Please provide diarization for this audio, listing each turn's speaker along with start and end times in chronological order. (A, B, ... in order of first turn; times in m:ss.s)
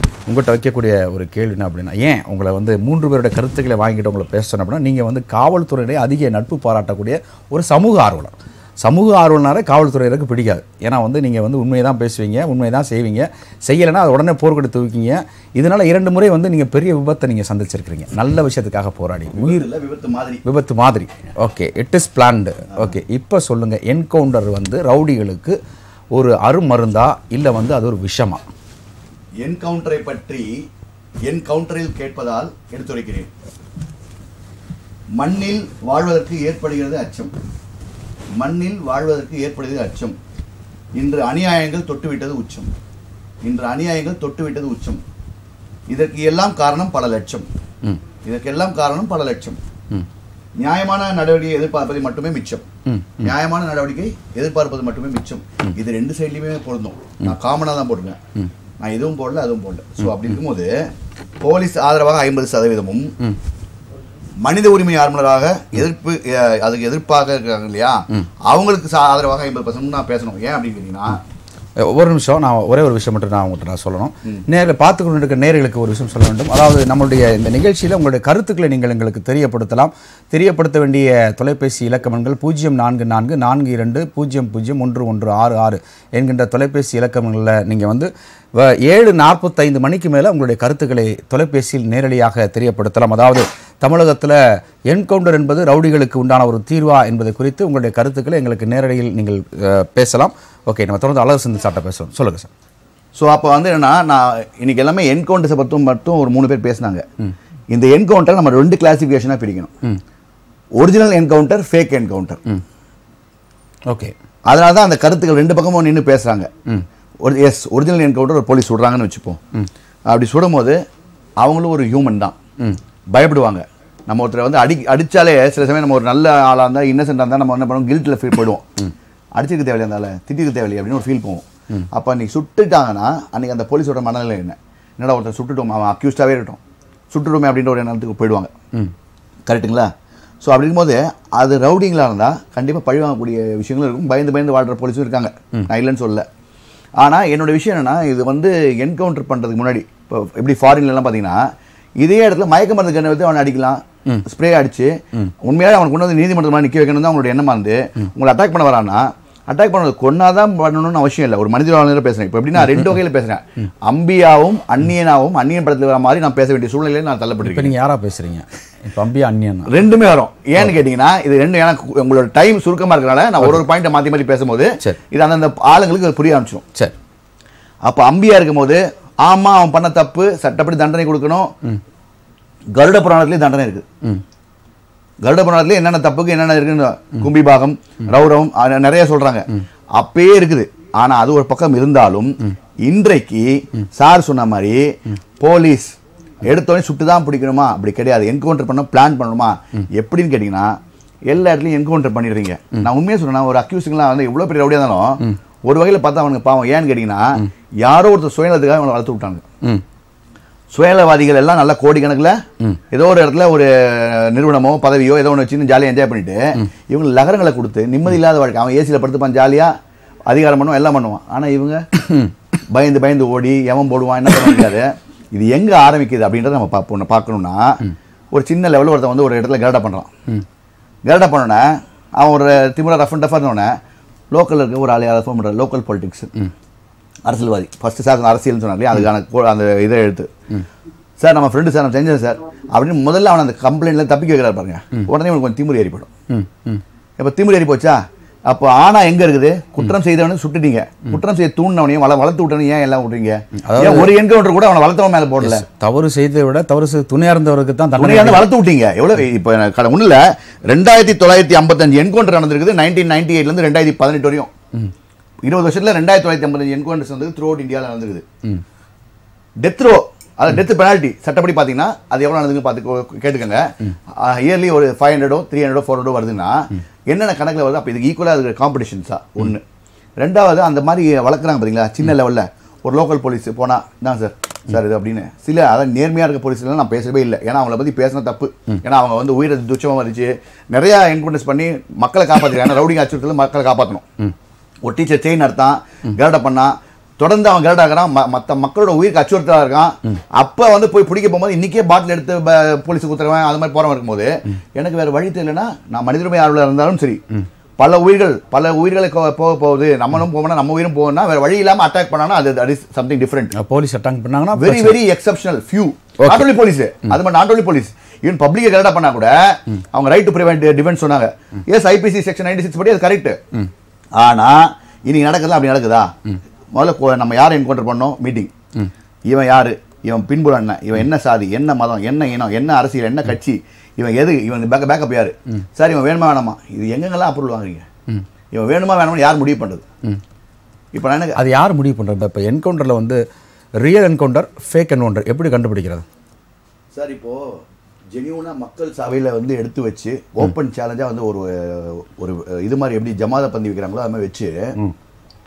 0:00.3-0:19.6 A
0:19.4-0:20.4 B
0:20.4-0:25.6 A
0:26.1-0:28.4 A
0:29.4-0:30.5 B
0:31.2-0:33.3 B
0:35.1-0:37.3 B
0:38.4-0:40.2 B
0:40.9-0:42.7 B
0:43.4-0:45.0 B
0:45.9-0:47.4 B
0:48.2-0:49.6 B
0:50.6-0:52.6 B
0:52.9-0:53.3 A
0:53.2-0:58.2 B
0:58.8-1:00.9 B
1:01.4-1:03.1 B
1:04.4-1:11.2 B
1:11.8-1:34.4 A
1:34.9-1:42.5 A
1:43.1-1:47.0 B
1:47.7-1:49.7 B
1:50.8-1:52.4 B
1:53.9-1:54.1 A
1:54.5-1:56.5 B
1:57.2-1:59.4 B
2:00.1-2:00.8 B
2:01.4-2:02.4 B
2:03.1-2:08.7 B
2:09.4-2:16.6 B
2:17.1-2:18.5 B
2:19.5-2:19.9 B
2:20.4-2:26.2 B
2:27.0-2:31.4 B
2:32.0-2:47.7 B
2:47.4-2:49.8 A
2:49.7-2:56.6 B
2:57.8-3:01.5 B
3:02.7-3:03.8 B
3:05.2-3:14.8 B
3:15.4-3:20.7 B
3:21.3-3:29.4 B
3:30.7-3:32.4 B
3:32.9-3:39.7 B
3:40.3-3:41.8 B
3:42.1-3:42.3 A
3:42.7-3:47.8 B
3:48.3-3:50.1 B
3:51.0-3:51.6 B
3:52.2-3:53.7 B
3:54.3-3:56.3 B
3:57.2-4:00.3 B
4:01.2-4:06.1 B
4:06.3-4:06.8 A
4:07.2-4:15.6 B
4:13.6-4:14.1 A
4:15.4-4:18.5 A
4:18.0-4:24.5 B
4:25.4-4:28.2 B
4:29.6-4:33.6 B
4:34.2-4:39.6 B
4:40.2-4:54.0 B
4:54.8-5:07.2 B
5:07.8-5:13.5 B
5:13.5-5:15.0 A
5:14.6-5:23.4 B
5:16.2-5:16.5 A
5:24.2-5:26.1 B
5:26.7-5:28.5 B
5:29.3-5:37.8 B
5:38.5-5:39.8 B
5:40.9-5:41.4 B
5:41.4-5:43.2 A
5:43.8-5:46.0 A
5:46.9-5:54.7 B